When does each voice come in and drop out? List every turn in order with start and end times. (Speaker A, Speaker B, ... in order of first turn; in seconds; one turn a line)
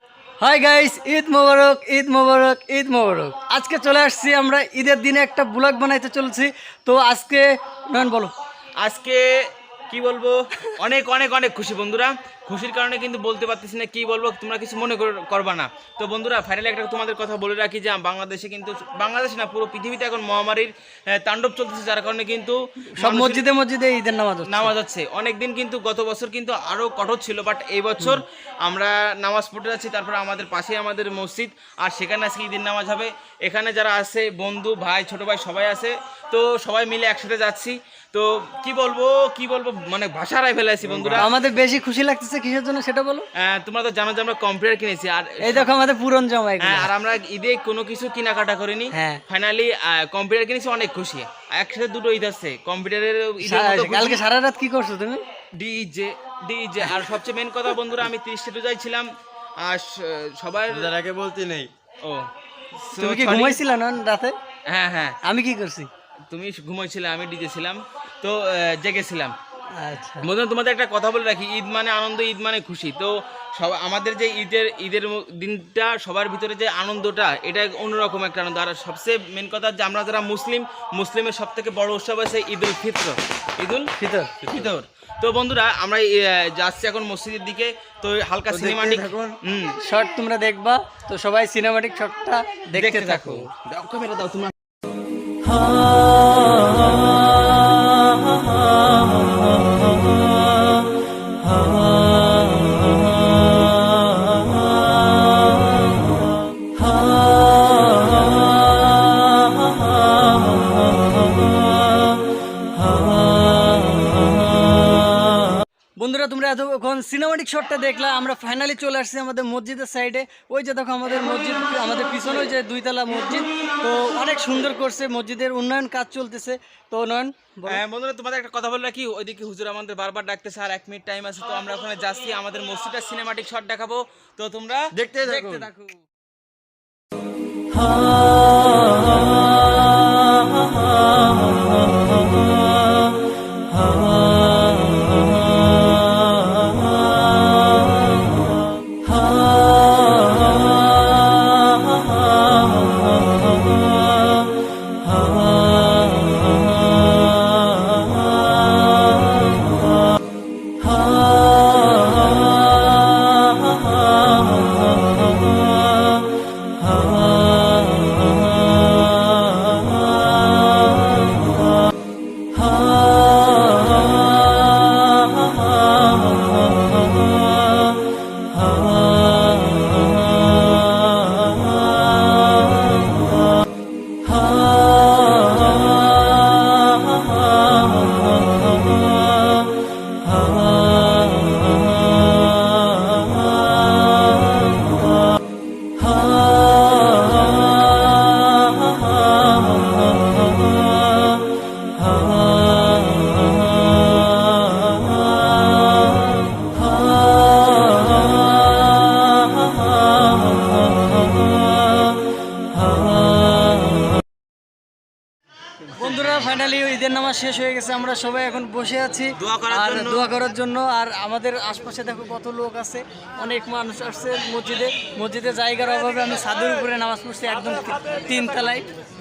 Speaker A: 0.4-8.3
Speaker B: 8.8-9.3
Speaker B: 9.9-23.5
Speaker A: 22.9-24.7
Speaker B: 24.4-41.3
Speaker C: 40.9-41.3
Speaker A: 41.2-43.3
Speaker B: 43.4-45.7
Speaker A: 45.4-46.9
Speaker B: 46.6-54.2
Speaker A: 48.9-49.2
Speaker A: 53.4-55.2
Speaker B: 55.6-59.1
Speaker B: 59.6-60.9
Speaker C: 60.7-61.7
Speaker B: 62.0-62.3
Speaker B: 62.8-63.6
Speaker A: 63.0-64.4
Speaker B: 64.7-65.2
Speaker A: 65.2-65.9
Speaker B: 66.3-69.3
Speaker A: 69.8-70.3
Speaker B: 70.2-89.8
Speaker A: 84.0-84.3
Speaker C: 88.5-89.4
Speaker A: 89.8-93.5
Speaker B: 92.8-94.5
Speaker A: 116.0-127.8
Speaker B: 127.7-136.0
Speaker C: 134.9-135.7
Speaker A: 215.9-228.9
Speaker B: 219.4-220.3